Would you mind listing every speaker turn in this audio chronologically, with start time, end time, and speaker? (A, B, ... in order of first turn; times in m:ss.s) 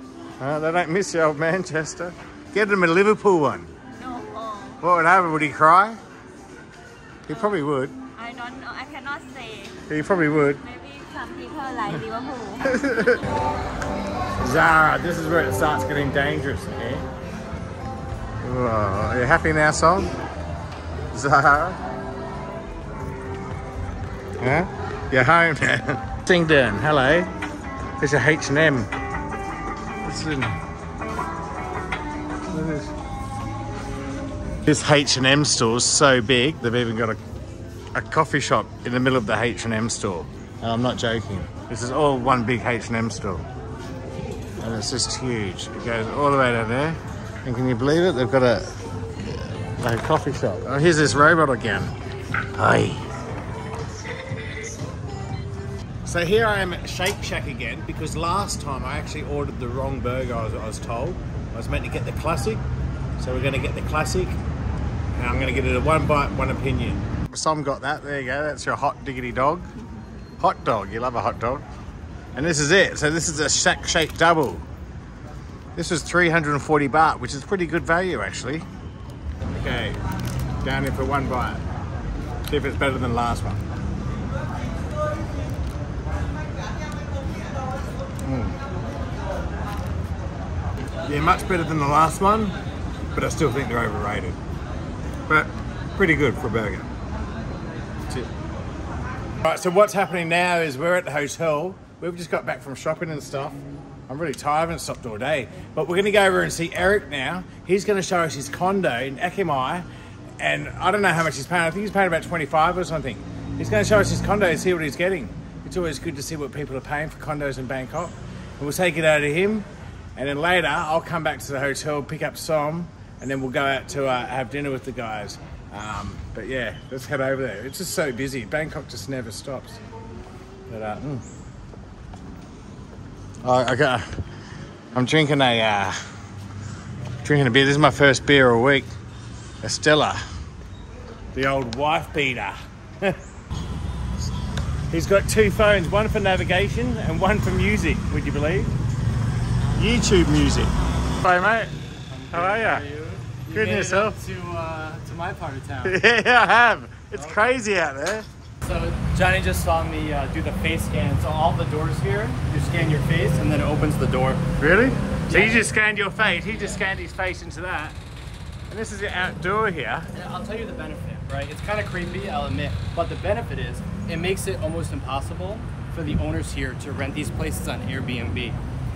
0:00.4-0:03.7 A
0:04.0-0:04.8 B
0:04.8-0:06.0 A
0:07.3-0:08.0 A
0:07.3-0:07.6 B
0:08.2-0:09.8 B
0:09.9-0:10.6 A
0:10.6-0:12.7 B
0:12.6-0:13.3 A
0:14.4-0:17.1 A
0:18.4-0:20.2 A
0:21.1-0:21.8 A
0:24.4-0:27.3 A
0:28.0-0:28.9 A
0:30.0-0:30.6 A
0:32.5-0:32.9 A
0:34.6-0:37.2 A
0:37.9-0:43.5 A
0:44.6-0:51.9 A
0:52.5-0:53.1 A
0:56.0-1:02.6 A
1:03.2-1:04.4 A
1:05.2-1:09.7 A
1:10.4-1:11.6 A
1:12.4-1:14.7 A
1:15.8-1:18.6 A
1:19.5-1:20.0 A
1:20.6-1:21.6 A
1:22.5-1:23.6 A
1:28.2-1:28.6 A
1:31.0-1:32.6 A
1:33.1-1:34.4 A
1:35.3-1:36.9 A
1:39.4-1:49.9 A
1:50.4-2:09.8 A
2:10.7-2:11.2 A
2:13.4-2:14.1 A
2:14.9-2:16.0 A
2:17.2-2:18.9 A
2:19.6-2:20.2 A
2:21.4-2:23.2 A
2:24.9-2:28.8 A
2:29.8-2:31.7 A
2:31.8-2:36.0 C
2:32.3-2:32.8 A
2:33.5-2:34.2 A
2:35.8-2:38.3 A
2:37.1-2:37.6 C
2:38.6-2:44.4 C
2:44.6-2:48.0 A
2:45.3-2:45.8 C
2:46.5-2:46.9 C
2:48.7-2:50.1 A
2:50.1-2:58.6 C